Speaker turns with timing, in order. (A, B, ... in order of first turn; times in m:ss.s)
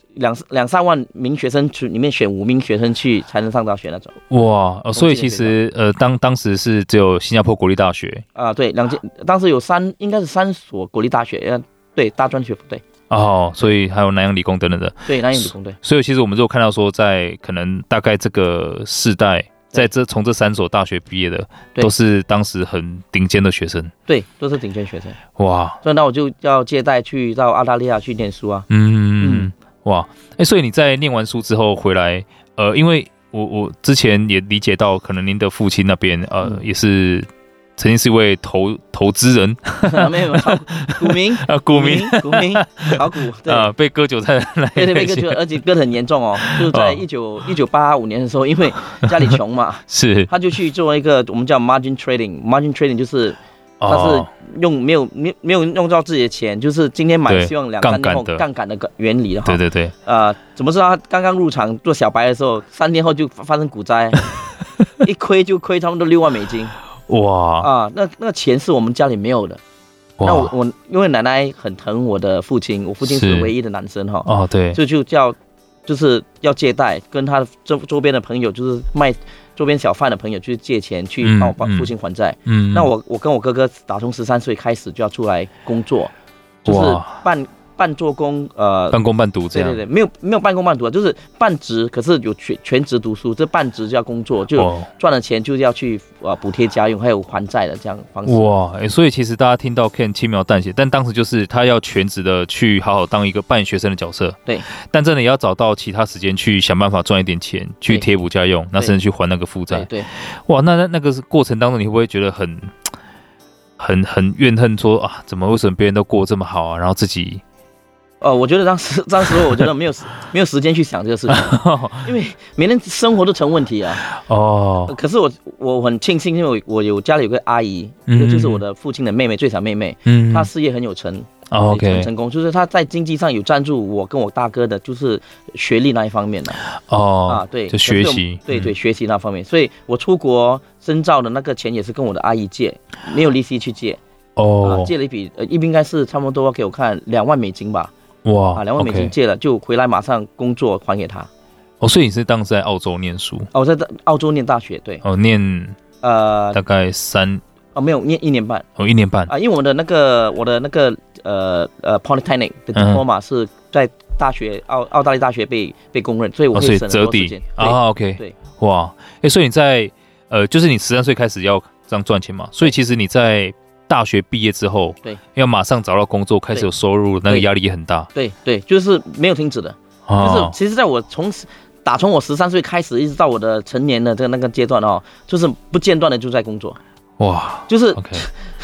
0:00.2-0:04.1 A
0:04.3-0:08.2 B
0:05.0-0:05.6 A
0:08.4-0:12.8 A
0:13.1-0:23.9 B
0:15.1-0:15.8 A
0:24.1-0:25.2 A
0:25.4-0:25.8 B
0:25.8-0:28.7 A
0:28.7-0:45.4 B
0:29.2-0:29.5 A
0:39.8-0:43.7 A
0:44.8-1:04.2 A
0:46.4-0:47.0 B
0:49.9-0:50.3 B
0:53.8-0:54.3 B
0:57.3-0:58.4 B
0:59.5-0:59.9 B
1:05.0-1:06.7 A
1:07.1-1:07.7 B
1:07.6-1:09.6 A
1:10.2-1:10.5 B
1:10.2-1:15.4 A
1:13.0-1:13.5 B
1:14.2-1:14.8 B
1:15.9-1:26.1 A
1:21.2-1:21.9 B
1:22.5-1:22.9 B
1:26.6-1:27.1 B
1:26.6-1:29.0 A
1:28.9-1:29.8 B
1:29.5-1:38.5 A
1:34.6-1:34.9 B
1:38.3-1:52.8 B
1:49.7-1:50.1 A
1:53.8-1:57.4 B
1:58.2-2:04.0 A
2:01.3-2:02.1 B
2:04.0-2:05.0 B
2:04.9-2:16.6 A
2:08.1-2:08.6 B
2:10.1-2:10.5 B
2:11.5-2:12.1 B
2:16.6-2:18.7 B
2:17.3-2:24.0 A
2:24.4-2:24.9 B
2:24.6-2:27.9 A
2:28.2-2:29.1 B
2:28.6-2:31.3 A
2:31.8-2:33.5 B
2:33.5-2:35.0 A
2:35.0-2:35.8 B
2:36.0-2:36.6 A
2:36.5-2:37.4 B
2:37.8-2:38.6 A
2:38.8-2:39.3 B
2:39.3-2:48.4 A
2:42.7-2:43.0 B
2:46.5-2:58.1 B
2:58.1-3:06.8 A
3:00.1-3:00.5 B
3:07.2-3:08.3 B
3:07.7-3:08.3 A